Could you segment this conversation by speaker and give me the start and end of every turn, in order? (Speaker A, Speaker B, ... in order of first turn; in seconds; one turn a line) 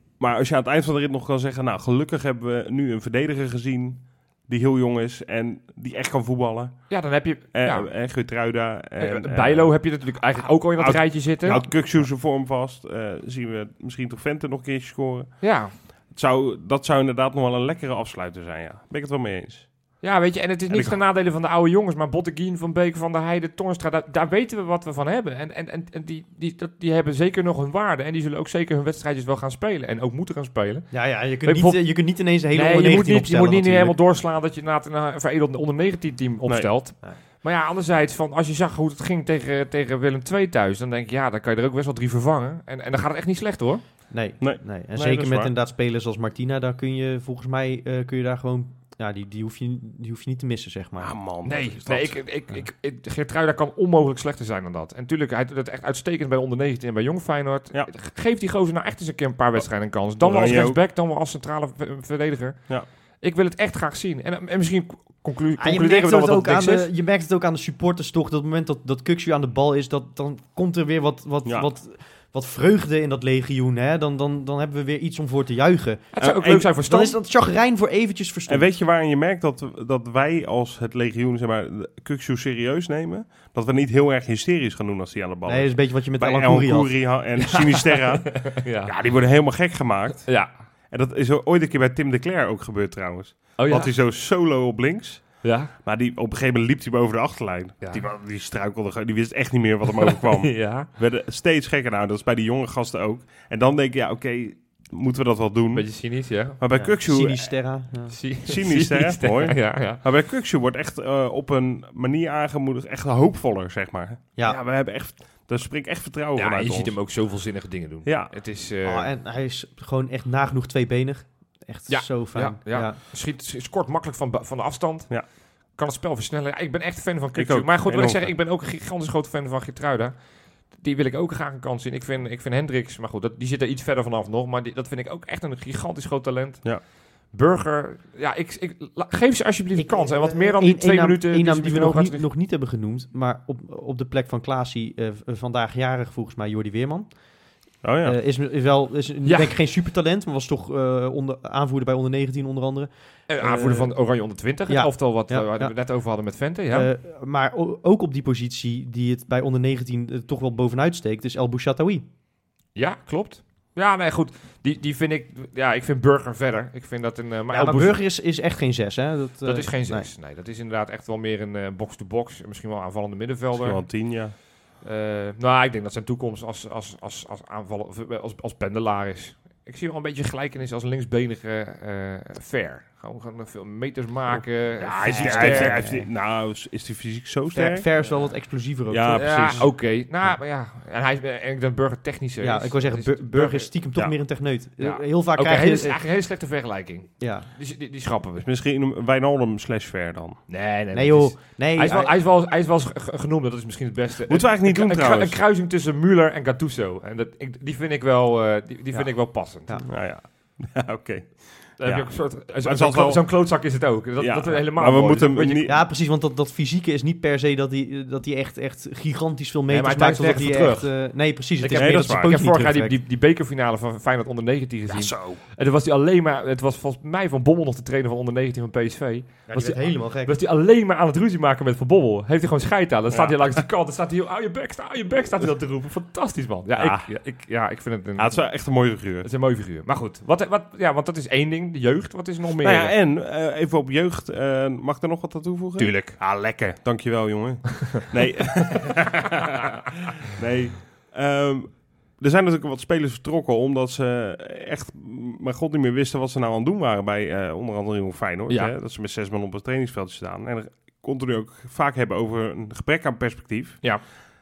Speaker A: 0.2-7.0
Speaker B: 6.9-7.9
Speaker A: 7.5-19.7
Speaker B: 9.0-12.0
Speaker B: 15.4-15.7
Speaker B: 20.0-30.9
Speaker A: 20.7-21.0
Speaker C: 30.9-34.0
Speaker B: 31.4-43.8
Speaker C: 44.1-51.1
Speaker A: 44.4-45.5
Speaker A: 51.0-52.2
Speaker B: 51.4-66.9
Speaker A: 60.2-60.8
Speaker C: 65.6-76.2
Speaker B: 76.1-77.2
Speaker A: 76.2-76.7
Speaker C: 76.8-78.7
Speaker A: 78.5-90.4
Speaker C: 85.5-87.0
Speaker B: 87.5-88.9
Speaker B: 90.2-90.5
Speaker A: 90.9-105.9
Speaker B: 93.6-93.9
Speaker B: 95.4-95.7
Speaker B: 97.8-98.1
Speaker B: 100.1-100.9
Speaker B: 105.7-106.6
Speaker A: 106.6-107.5
Speaker C: 106.7-108.1
Speaker B: 108.1-110.0
Speaker A: 108.5-117.0
Speaker B: 116.4-119.1
Speaker A: 118.0-118.3
Speaker C: 118.8-123.0
Speaker B: 121.9-142.3
Speaker A: 127.3-128.3
Speaker C: 139.8-147.1
Speaker A: 147.8-148.2
Speaker C: 148.0-153.9
Speaker B: 149.2-149.6
Speaker B: 153.3-156.9
Speaker C: 154.7-155.7
Speaker C: 156.7-162.1
Speaker B: 162.8-168.0
Speaker C: 167.5-170.1
Speaker B: 169.4-173.9
Speaker A: 173.6-174.3
Speaker B: 174.8-185.9
Speaker A: 184.8-187.9
Speaker C: 185.0-186.1
Speaker C: 187.5-189.7
Speaker A: 188.9-189.7
Speaker B: 189.1-193.7
Speaker C: 192.4-196.0
Speaker B: 194.8-198.5
Speaker C: 197.2-197.5
Speaker A: 198.4-200.4
Speaker B: 200.5-209.8
Speaker C: 200.9-202.1
Speaker A: 204.3-205.4
Speaker A: 209.9-213.5
Speaker B: 211.8-215.7
Speaker A: 214.2-215.8
Speaker C: 215.7-223.0
Speaker B: 219.7-220.9
Speaker B: 221.6-238.5
Speaker A: 221.8-222.4
Speaker A: 224.9-225.4
Speaker C: 229.5-230.3
Speaker A: 233.1-233.6
Speaker A: 236.7-237.1
Speaker A: 238.2-239.3
Speaker B: 239.2-243.0
Speaker A: 242.6-263.9
Speaker B: 245.8-246.2